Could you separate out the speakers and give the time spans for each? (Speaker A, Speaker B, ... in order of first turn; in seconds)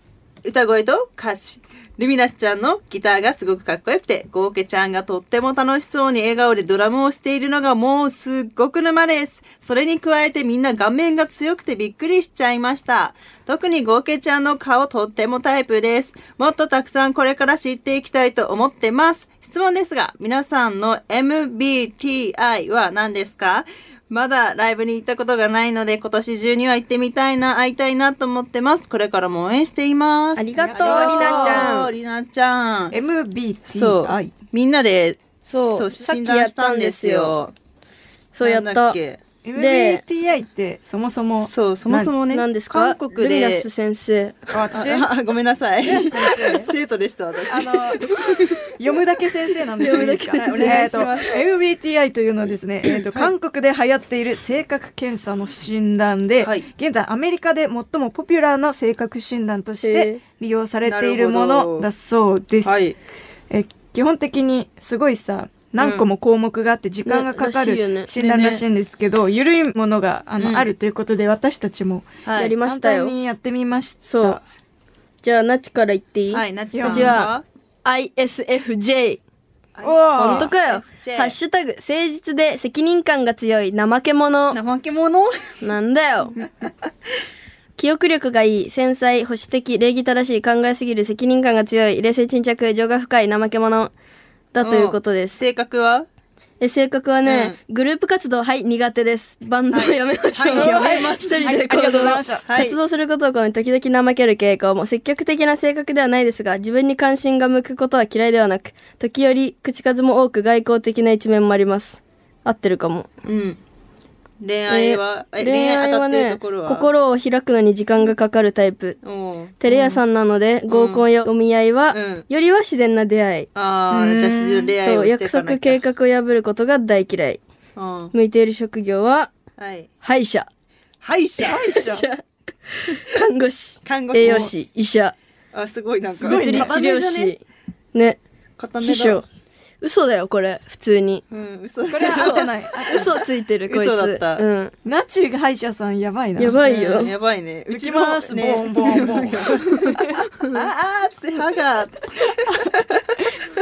Speaker A: 0.4-32.9, 33.7-37.5, 38.4-39.2, 41.4-43.7, 44.7-48.4, 50.4-51.4, 52.9-53.3, 56.4-56.6, 60.8-61.9, 62.6-63.0, 65.8-66.0, 68.1-68.6, 70.4-70.7, 72.2-72.5, 76.3-77.4, 79.7-81.3, 84.5-85.5, 94.6-96.0, 97.2-97.5, 99.7-102.8, 113.2-113.6, 114.4-116.9, 119.0-120.0, 120.7-121.0, 121.9-122.3, 123.5-125.8, 127.8-128.1, 129.6-129.9, 131.0-131.6, 133.8-134.5, 135.5-137.3, 138.6-139.2, 141.3-143.1, 143.7-144.4, 146.6-153.2
Speaker B: 30.4-31.9, 35.4-37.3, 38.3-39.0, 39.5-40.0, 42.3-44.5, 49.8-51.1, 59.8-60.2, 67.0-68.1, 72.4-73.1, 74.0-74.4, 75.2-77.3, 77.8-79.2, 80.2-84.6, 85.6-86.3, 87.8-93.9, 94.5-95.4, 96.6-113.1, 114.7-119.0, 119.6-123.5, 124.8-127.4, 128.1-129.3, 130.0-130.5, 131.7-135.1, 136.2-137.4, 137.9-138.2, 138.8-139.2, 139.8-141.2, 142.0-144.7, 146.4-147.1
Speaker C: 30.7-31.8, 32.9-34.3, 39.4-42.1, 44.5-45.1, 45.8-46.7, 47.5-48.1, 48.8-62.8, 63.5-72.1, 72.6-74.4, 76.7-77.3, 79.8-80.5, 100.5-102.4, 123.9-124.7, 131.4-132.1, 136.1-136.7, 141.9-143.1, 144.8-146.6, 147.7-150.2